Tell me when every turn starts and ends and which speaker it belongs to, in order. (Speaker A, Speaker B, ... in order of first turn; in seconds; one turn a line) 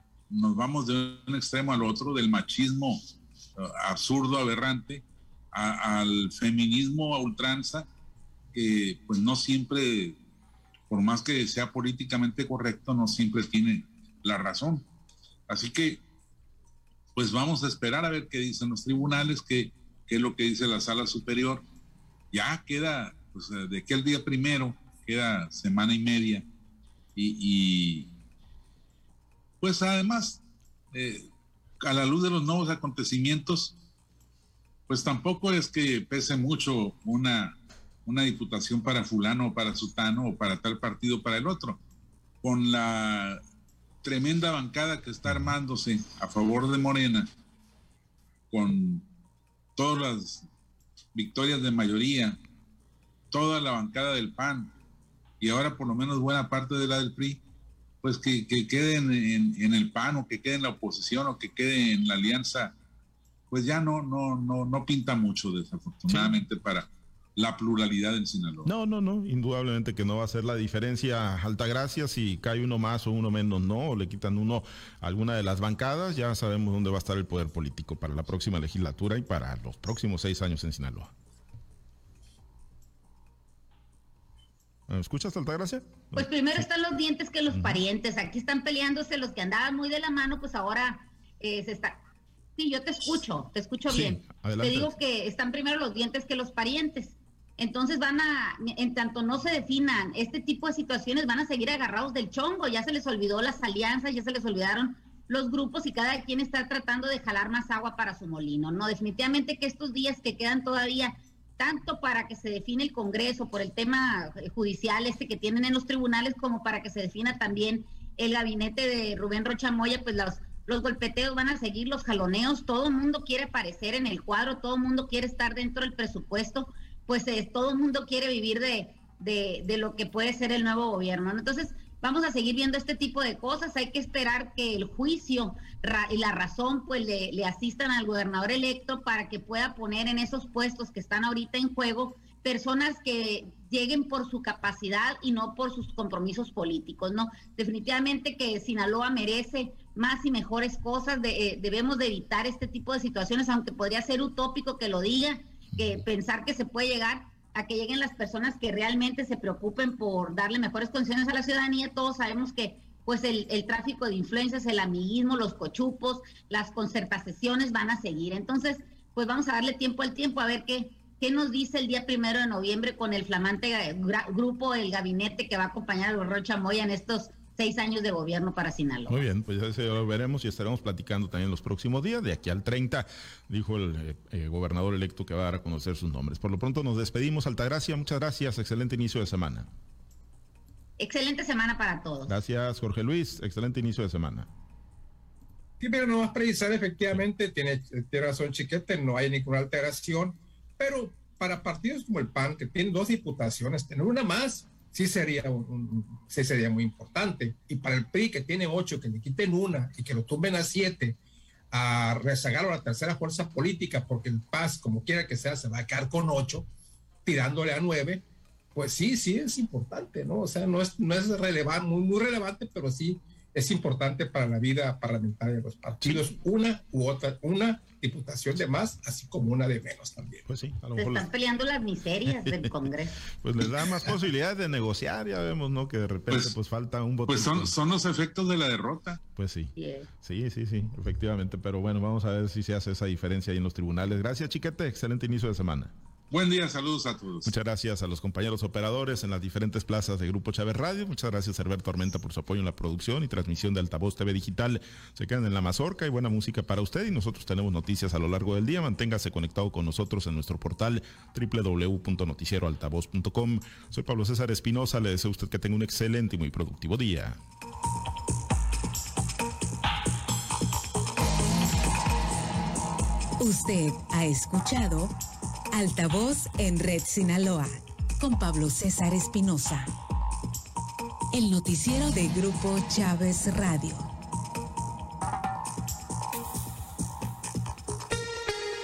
Speaker A: 0.3-3.0
Speaker A: 3.6-7.9
Speaker A: 8.5-10.2
Speaker A: 10.9-14.9
Speaker A: 15.5-16.0
Speaker A: 17.1-21.6
Speaker A: 22.3-26.4
Speaker A: 27.1-28.1
Speaker A: 29.6-30.4
Speaker A: 30.9-31.3
Speaker A: 31.8-33.7
Speaker A: 34.9-41.8
Speaker A: 42.4-43.4
Speaker A: 44.0-47.3
Speaker A: 48.5-49.0
Speaker A: 49.8-50.5
Speaker A: 51.1-52.4
Speaker A: 53.3-54.7
Speaker A: 55.4-57.4
Speaker A: 58.0-62.7
Speaker A: 63.5-68.7
Speaker B: 66.1-66.4
Speaker B: 68.6-81.1
Speaker B: 84.9-86.7
Speaker C: 86.1-92.0
Speaker B: 87.5-87.8
Speaker C: 92.5-179.2
Speaker B: 93.9-95.0
Speaker B: 155.8-156.0
Speaker B: 179.1-189.7
Speaker C: 191.0-192.3
Speaker B: 192.3-194.5
Speaker D: 195.8-211.2
Speaker D: 211.7-216.7
Speaker D: 217.2-230.4
Speaker B: 230.5-231.3
Speaker C: 230.9-233.2
Speaker B: 232.3-232.9
Speaker B: 233.4-237.7
Speaker A: 237.3-239.2
Speaker B: 239.3-245.9
Speaker C: 239.8-240.1
Speaker A: 246.3-247.5
Speaker B: 247.4-267.4
Speaker E: 273.4-275.1
Speaker E: 275.7-279.9
Speaker E: 281.3-284.1